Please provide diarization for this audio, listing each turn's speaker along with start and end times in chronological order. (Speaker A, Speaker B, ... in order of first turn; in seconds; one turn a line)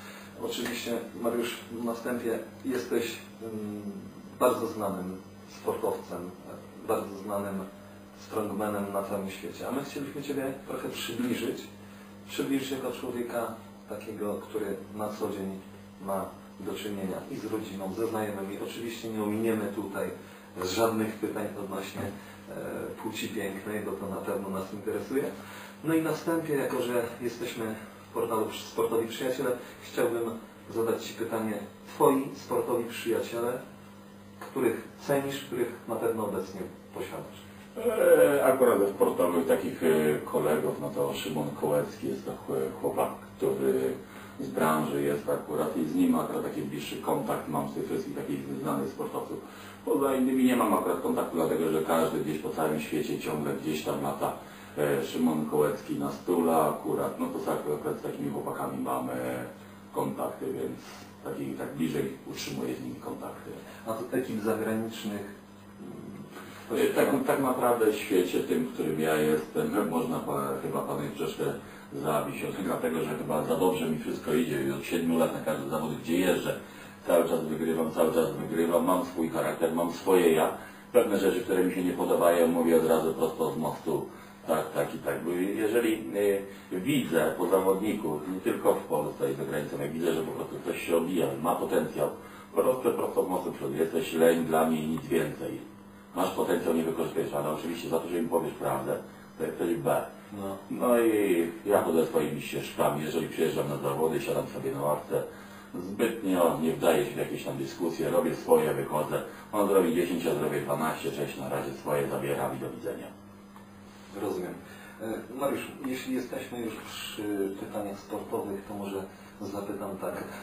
Speaker A: 0.4-11.7
Speaker A: 12.3-25.3
Speaker A: 25.8-33.6
Speaker A: 34.4-37.4
Speaker B: 37.8-63.6
Speaker A: 63.9-66.0
Speaker A: 66.7-67.2
Speaker B: 66.7-95.6
Speaker B: 96.1-100.1
Speaker A: 100.3-100.6
Speaker B: 100.7-113.1
Speaker A: 114.1-120.3